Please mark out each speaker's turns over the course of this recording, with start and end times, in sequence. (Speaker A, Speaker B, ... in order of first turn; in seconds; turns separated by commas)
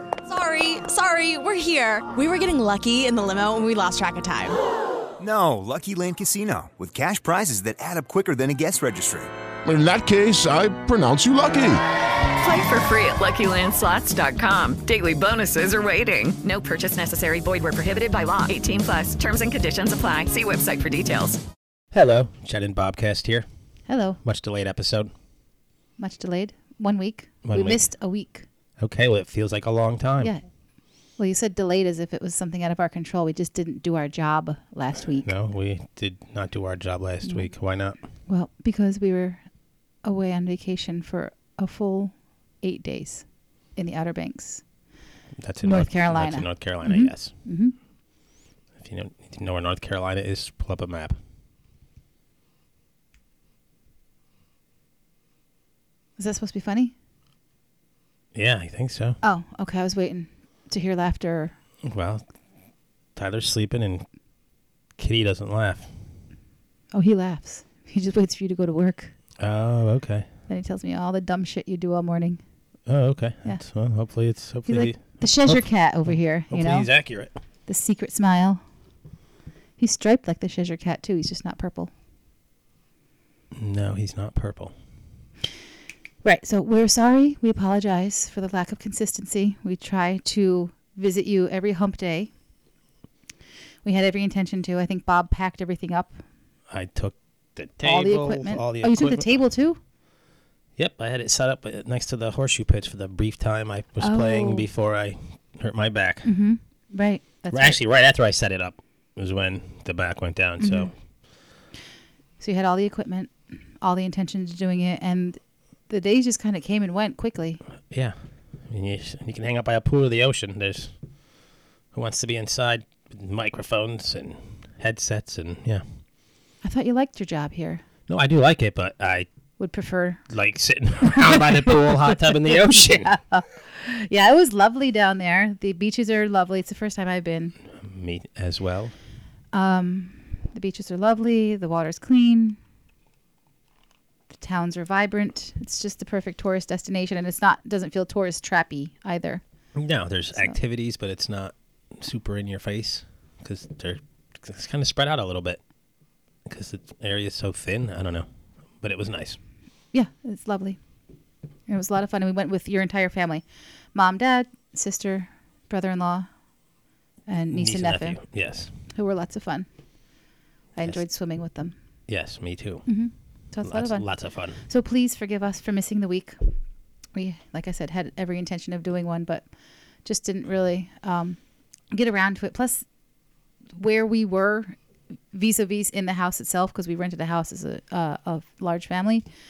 Speaker A: 0.3-4.6, Speaker B: 5.2-9.3, Speaker C: 9.7-11.8, Speaker D: 12.4-21.4, Speaker E: 21.9-23.4, Speaker F: 23.9-24.2, Speaker E: 24.2-25.1, Speaker F: 26.0-28.4, Speaker E: 27.4-27.9, Speaker E: 28.8-30.3, Speaker F: 31.2-35.3, Speaker E: 35.1-38.0, Speaker F: 37.2-37.5, Speaker F: 38.3-39.4, Speaker F: 40.0-44.6, Speaker E: 45.4-47.3, Speaker F: 45.6-47.7, Speaker E: 48.8-51.2, Speaker F: 56.2-56.9, Speaker E: 58.3-59.2, Speaker F: 59.2-61.5, Speaker E: 61.8-62.2, Speaker E: 63.2-64.0, Speaker E: 65.0-65.9, Speaker F: 66.9-69.1, Speaker E: 69.4-70.3, Speaker F: 70.5-72.4, Speaker E: 72.9-77.3, Speaker F: 74.7-76.9, Speaker F: 77.7-78.6, Speaker F: 79.8-81.9, Speaker E: 83.5-84.7, Speaker F: 86.2-92.3, Speaker F: 93.8-96.1, Speaker E: 96.7-99.4, Speaker F: 97.8-99.8, Speaker E: 100.8-106.3, Speaker F: 104.0-104.7, Speaker F: 106.2-107.8, Speaker E: 107.5-110.9, Speaker F: 110.6-110.9, Speaker F: 112.4-115.4, Speaker F: 115.9-117.6, Speaker E: 117.9-118.1, Speaker E: 118.7-120.9, Speaker E: 121.9-125.8, Speaker F: 126.6-127.8, Speaker E: 128.1-129.3, Speaker F: 129.6-130.2, Speaker E: 130.3-133.1, Speaker F: 131.1-137.5, Speaker E: 137.8-138.9, Speaker F: 139.5-142.6, Speaker F: 144.3-149.4, Speaker E: 149.8-155.6, Speaker E: 156.5-158.3, Speaker E: 158.8-159.4, Speaker F: 159.9-160.8, Speaker F: 161.7-166.3, Speaker F: 167.3-168.2, Speaker E: 167.5-168.7, Speaker F: 168.9-169.7, Speaker F: 170.8-171.8, Speaker E: 172.1-172.9, Speaker F: 172.9-174.1, Speaker E: 173.6-174.6, Speaker F: 174.6-176.4, Speaker F: 177.2-179.4, Speaker F: 180.0-181.4, Speaker F: 181.9-182.8, Speaker F: 183.8-184.8, Speaker F: 185.3-189.2